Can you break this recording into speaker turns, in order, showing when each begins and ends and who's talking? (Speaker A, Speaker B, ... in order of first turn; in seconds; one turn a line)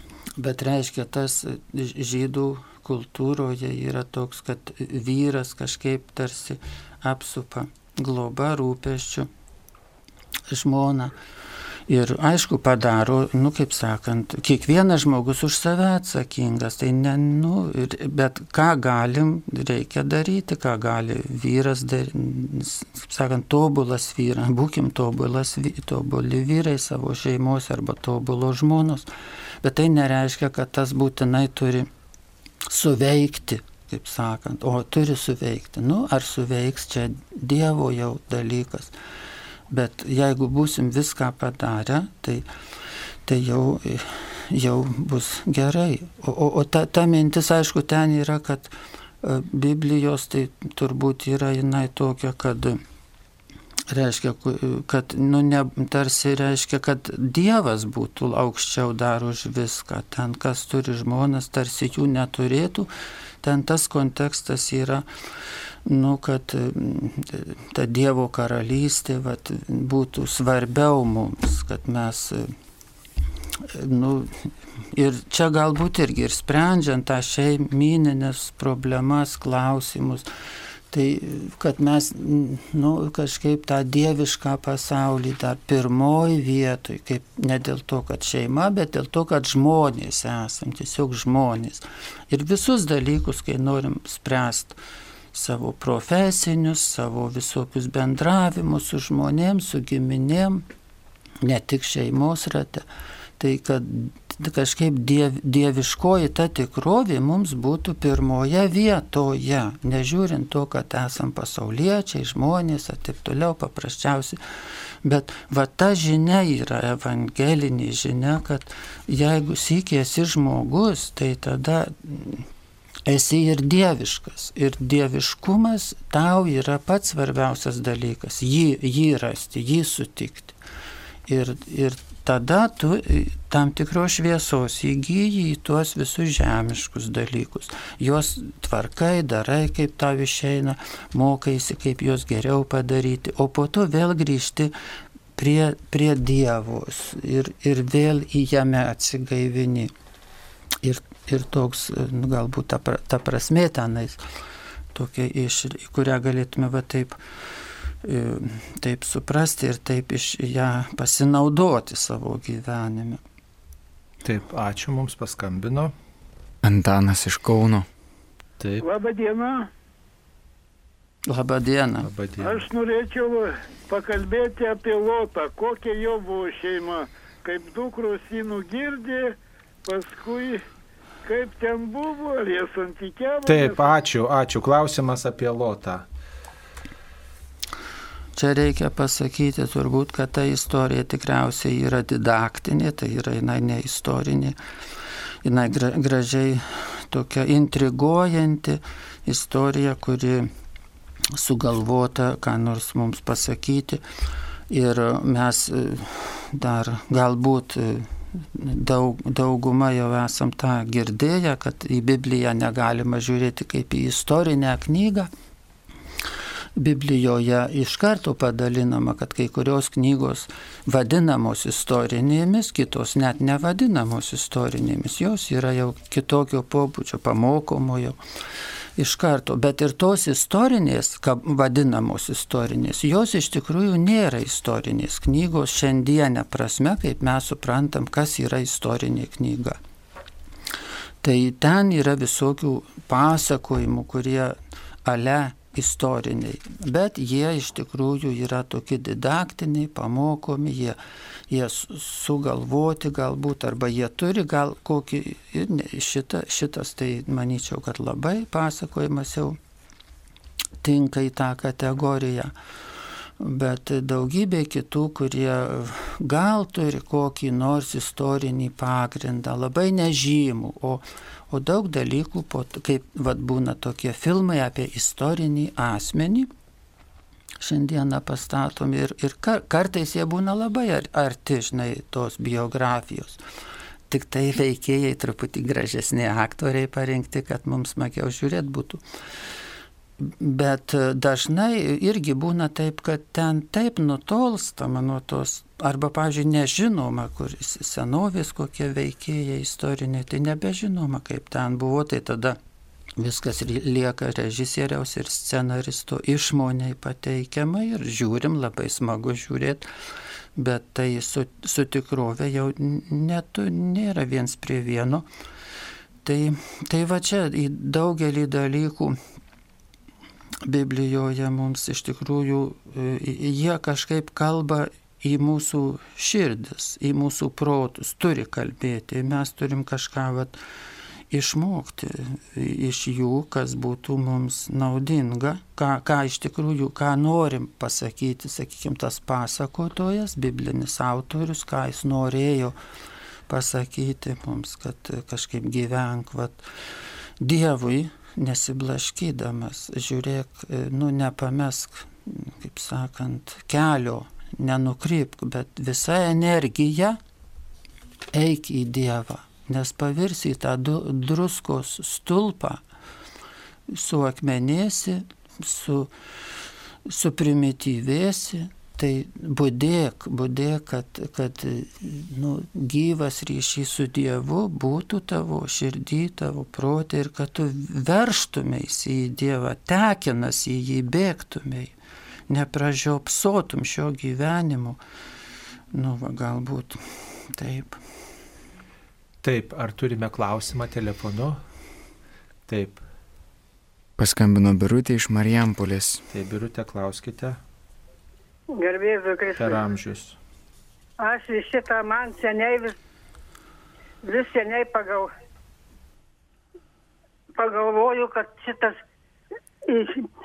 Speaker A: 0.4-9.3
Speaker A: 10.5-11.2
Speaker A: 11.9-29.1
Speaker A: 29.6-31.9
Speaker A: 32.7-38.9
Speaker A: 39.7-42.5
Speaker A: 43.3-52.8
Speaker A: 53.9-62.9
Speaker A: 63.4-65.1
Speaker A: 65.8-72.5
Speaker A: 73.6-80.3
Speaker A: 80.9-94.8
Speaker A: 95.3-100.7
Speaker A: 101.4-102.9
Speaker A: 103.4-114.4
Speaker A: 115.0-122.5
Speaker A: 123.1-130.6
Speaker A: 131.3-144.7
Speaker A: 145.4-149.9
Speaker A: 150.8-154.2
Speaker A: 154.9-157.2
Speaker A: 158.0-163.2
Speaker B: 164.2-165.9
Speaker C: 166.6-167.9
Speaker B: 168.6-168.9
Speaker D: 168.8-169.7
Speaker A: 171.3-172.1
Speaker B: 172.0-172.7
Speaker D: 172.4-180.6
Speaker D: 181.2-183.9
Speaker B: 183.5-186.1
Speaker A: 188.3-194.6
Speaker A: 195.4-200.5
Speaker A: 201.3-204.0
Speaker A: 204.7-215.3
Speaker A: 216.8-228.2
Speaker A: 229.0-239.8
Speaker A: 241.2-251.0
Speaker A: 251.5-259.6
Speaker A: 260.8-262.5
Speaker A: 263.4-276.5
Speaker A: 277.6-283.4
Speaker A: 284.1-289.0
Speaker A: 290.2-302.6
Speaker A: 303.2-309.9
Speaker A: 310.6-315.3
Speaker A: 316.2-319.2
Speaker A: 320.6-330.6
Speaker A: 331.3-342.8
Speaker A: 343.5-346.6
Speaker A: 347.4-357.2
Speaker A: 358.3-362.8
Speaker A: 363.9-366.1
Speaker A: 367.1-381.9
Speaker A: 382.5-385.0
Speaker A: 385.9-388.0
Speaker B: 389.4-391.6
Speaker B: 392.7-393.0
Speaker C: 394.2-396.2
Speaker B: 396.3-397.6
Speaker E: 398.8-399.8
Speaker B: 399.6-400.4
Speaker E: 401.2-402.9
Speaker E: 404.2-405.3
Speaker E: 407.6-409.0
Speaker E: 409.9-410.3